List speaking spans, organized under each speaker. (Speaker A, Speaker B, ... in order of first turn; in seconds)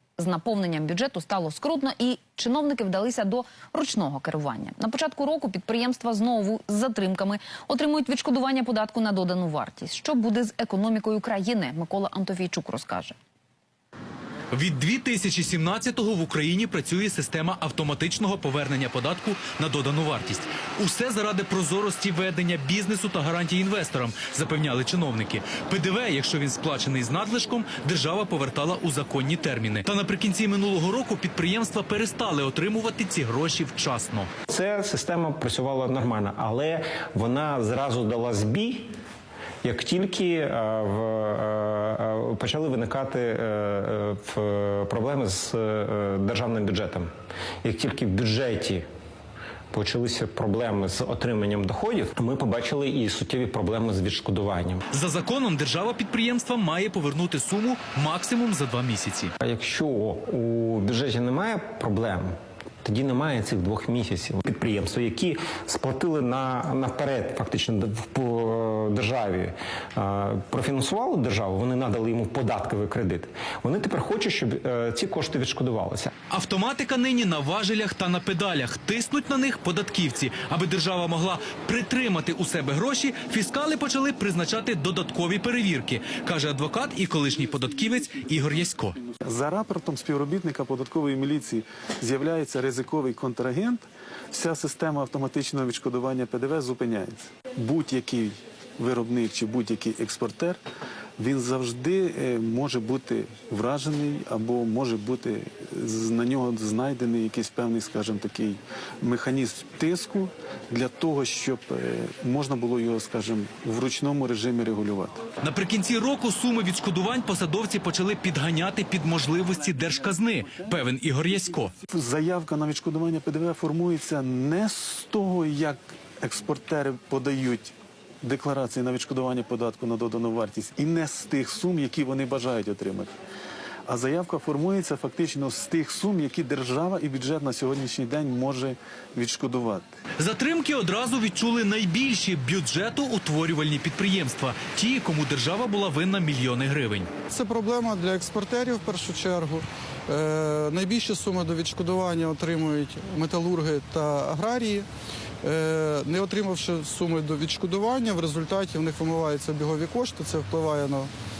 Speaker A: 0.2-13.1
Speaker B: 14.5-34.3, 54.9-59.3, 76.3-89.0, 115.4-121.7, 140.2-147.1
Speaker C: 34.5-38.9, 39.6-47.1, 47.6-48.8, 49.7-54.8, 59.4-76.1
Speaker D: 89.2-100.6, 101.2-115.2, 121.8-133.1, 133.9-139.9
Speaker E: 147.3-154.9, 155.4-161.1